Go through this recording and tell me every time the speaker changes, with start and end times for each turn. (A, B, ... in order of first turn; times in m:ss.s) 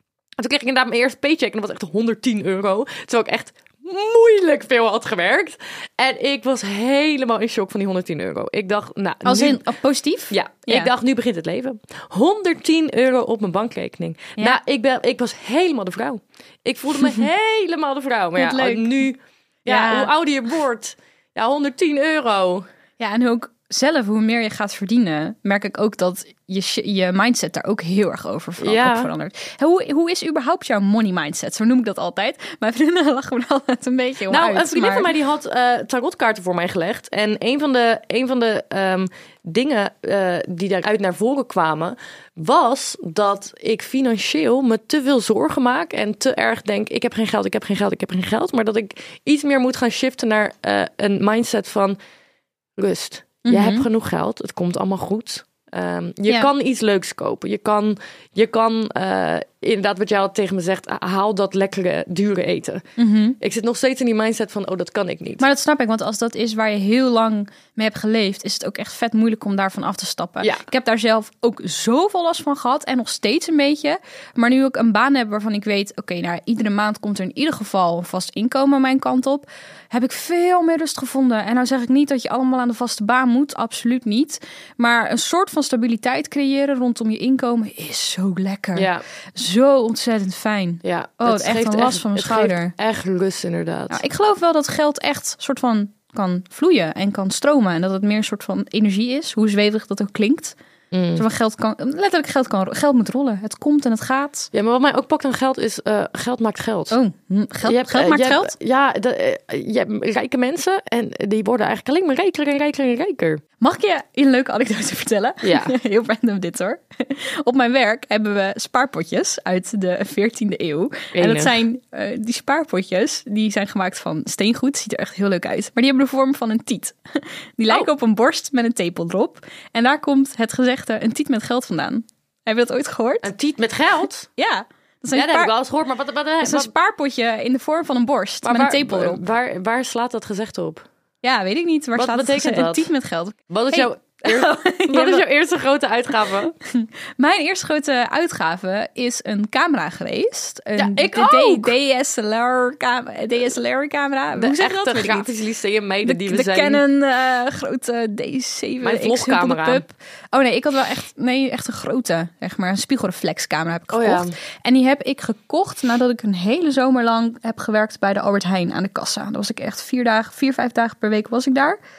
0:00.4-0:09.6 A
0:09.2-0:10.9 B
0:10.3-0:22.6 A
0:18.4-0:19.0 B
0:19.7-0:20.1 B
0:23.0-0:35.1 B
0:28.6-0:29.1 A
0:34.3-0:52.0 A
0:52.8-1:02.8 A
0:53.4-0:53.8 B
1:03.0-1:03.4 B
1:03.4-1:05.4 A
1:05.4-1:32.7 B
1:28.7-1:29.0 A
1:30.8-1:34.0 A
1:33.9-1:40.6 B
1:40.9-1:41.2 A
1:41.2-1:44.5 B
1:44.5-1:47.0 A
1:46.9-1:48.5 B
1:47.6-1:53.4 A
1:53.6-2:13.3 B
1:55.4-1:55.7 A
2:01.1-2:01.6 A
2:13.2-2:14.3 A
2:14.4-2:15.5 B
2:15.1-2:16.7 A
2:16.4-2:19.2 B
2:18.4-2:20.8 A
2:21.2-2:25.2 B
2:22.0-2:22.9 A
2:23.5-2:26.5 A
2:26.7-2:35.3 B
2:30.8-2:31.7 A
2:34.3-2:36.8 A
2:36.0-2:51.8 B
2:38.8-2:39.8 A
2:43.9-2:44.3 A